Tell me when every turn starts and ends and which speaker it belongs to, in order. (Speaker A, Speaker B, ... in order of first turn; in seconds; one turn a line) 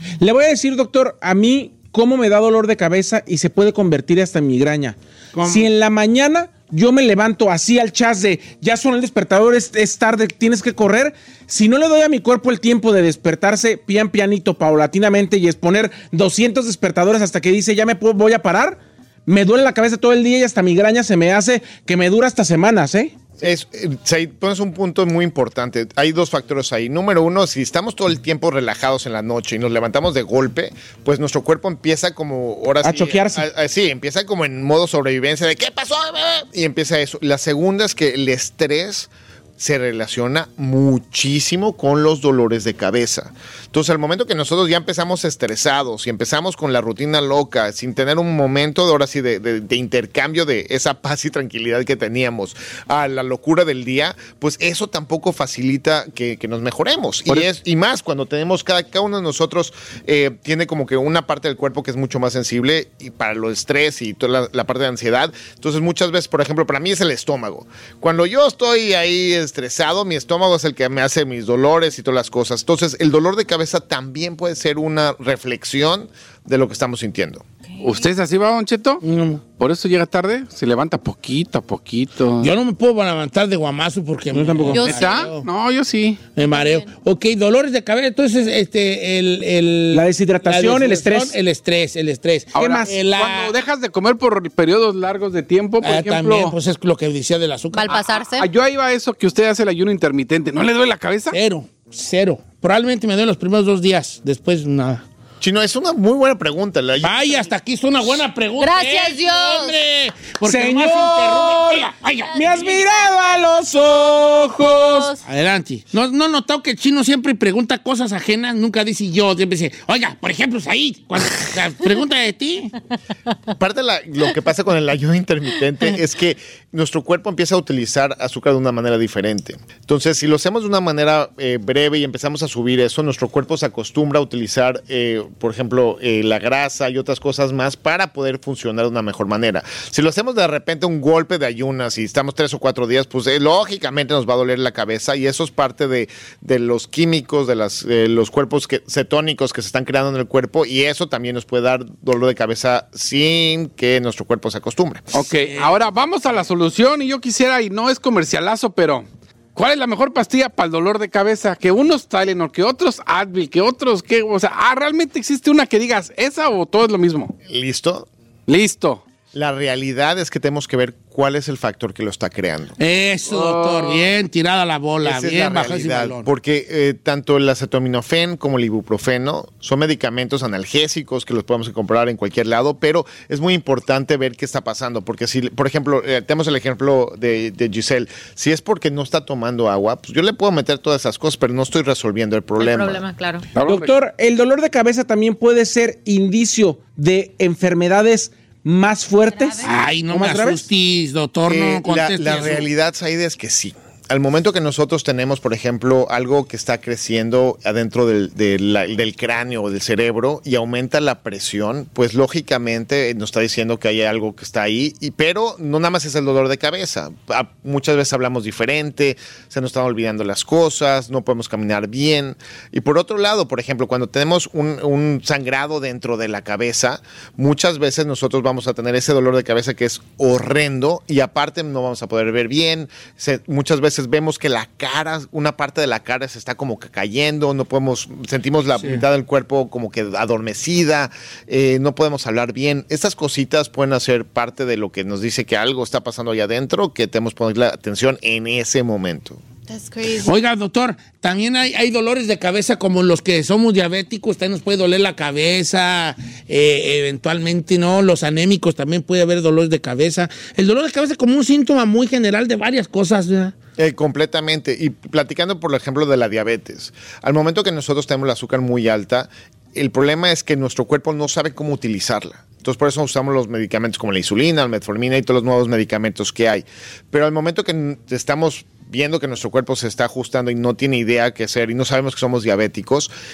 Speaker A: 0.2-23.1
Speaker B: 5.3-5.7
Speaker C: 23.4-77.4
Speaker A: 32.8-33.4
Speaker D: 77.8-79.0
Speaker B: 79.0-79.4
Speaker D: 79.5-82.5
Speaker B: 82.4-85.5
Speaker A: 84.3-85.0
Speaker E: 84.7-85.2
Speaker D: 84.7-86.2
Speaker B: 86.3-93.5
Speaker E: 86.4-86.9
Speaker A: 89.9-91.4
Speaker A: 92.5-93.0
Speaker D: 92.5-96.5
Speaker B: 95.8-97.9
Speaker E: 97.7-98.5
Speaker D: 97.9-101.4
Speaker B: 101.3-105.0
Speaker C: 105.4-107.5
Speaker B: 107.0-112.6
Speaker E: 108.6-109.8
Speaker A: 110.4-115.2
Speaker E: 112.3-113.0
Speaker E: 114.8-115.2
Speaker B: 115.2-122.7
Speaker C: 123.6-155.1
Speaker D: 155.1-167.3
Speaker B: 155.5-155.7
Speaker C: 167.4-168.1
Speaker D: 168.5-169.0
Speaker C: 169.3-172.8
Speaker B: 172.8-176.3
Speaker D: 173.3-174.1
Speaker C: 175.0-193.0
Speaker E: 192.6-193.4
Speaker D: 193.5-193.9
Speaker A: 193.6-200.6
Speaker E: 199.3-199.7
Speaker B: 199.6-202.7
Speaker C: 201.5-249.4
Speaker E: 249.7-250.3
Speaker B: 250.2-263.5
Speaker C: 263.8-283.1